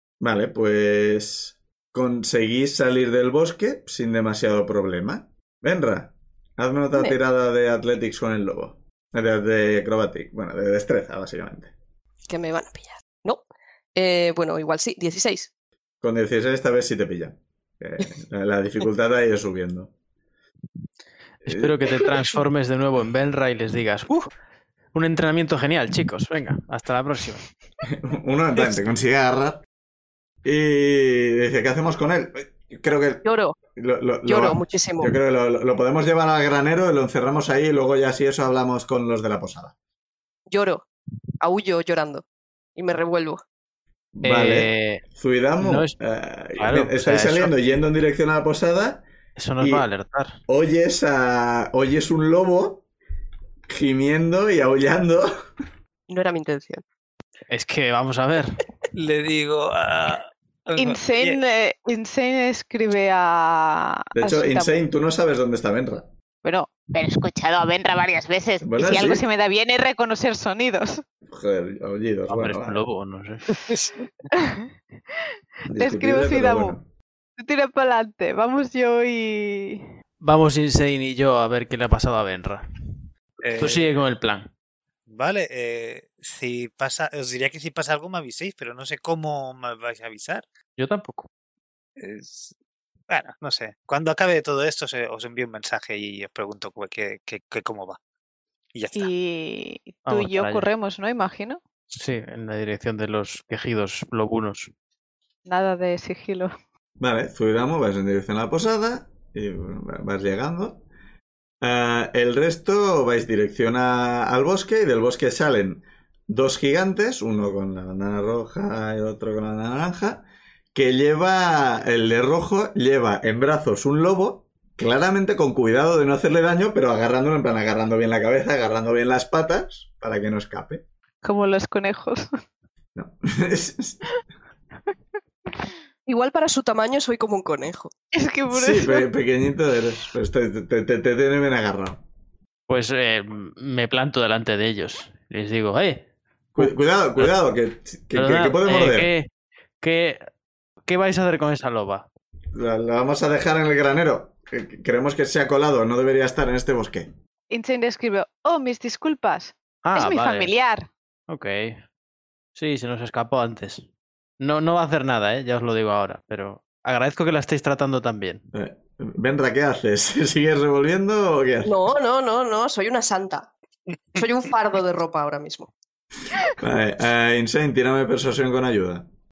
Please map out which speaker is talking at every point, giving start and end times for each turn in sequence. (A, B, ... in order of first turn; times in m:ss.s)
0:00.2-0:11.7 A
0:12.3-0:15.5 B
0:16.0-0:19.9 A
0:21.4-0:24.3 C
0:21.4-0:22.0 A
0:24.9-0:27.4 C
0:27.8-0:29.6 A
0:30.4-0:39.7 A
0:33.2-0:33.6 B
0:34.2-0:35.1 B
0:40.5-0:40.9 B
0:41.4-0:42.2 B
0:42.8-0:43.4 B
0:44.2-0:49.1 A
0:44.2-0:45.0 C
0:45.6-0:45.9 C
0:46.6-0:47.5 C
0:49.4-0:50.4 C
0:49.6-0:49.8 A
0:50.5-0:52.8 A
0:53.7-0:55.3 A
0:56.1-0:56.8 B
0:57.5-0:58.6 C
0:58.9-1:01.4 D
1:00.8-1:04.8 E
1:04.1-1:06.1 A
1:06.4-1:11.0 E
1:08.6-1:09.2 A
1:11.3-1:12.8 A
1:12.3-1:13.5 C
1:14.4-1:14.6 E
1:15.7-1:16.9 A
1:15.7-1:16.8 E
1:17.4-1:19.8 E
1:20.2-1:22.6 C
1:23.4-1:23.9 D
1:23.6-1:24.5 C
1:25.1-1:30.4 D
1:30.8-1:31.3 C
1:32.0-1:32.5 D
1:33.1-1:38.0 D
1:38.7-1:39.1 D
1:38.9-1:41.6 E
1:40.0-1:40.7 C
1:41.9-1:44.7 C
1:45.4-1:46.5 E
1:47.0-1:50.8 A
1:51.6-2:10.8 A
2:11.2-2:12.3 E
2:12.9-2:14.2 A
2:16.0-2:17.9 B
2:18.1-2:19.1 E
2:18.5-2:22.0 A
2:22.7-2:27.3 C
2:26.5-2:29.1 A
2:28.1-2:29.3 C
2:29.8-2:30.2 C
2:30.8-2:32.0 C
2:32.5-2:37.1 A
2:37.5-2:40.9 E
2:39.8-2:40.5 C
2:41.3-2:41.8 C
2:42.5-2:43.8 C
2:44.4-2:48.4 C
2:48.5-2:51.9 A
2:51.6-2:53.5 B
2:54.1-2:55.7 B
2:56.4-2:59.1 A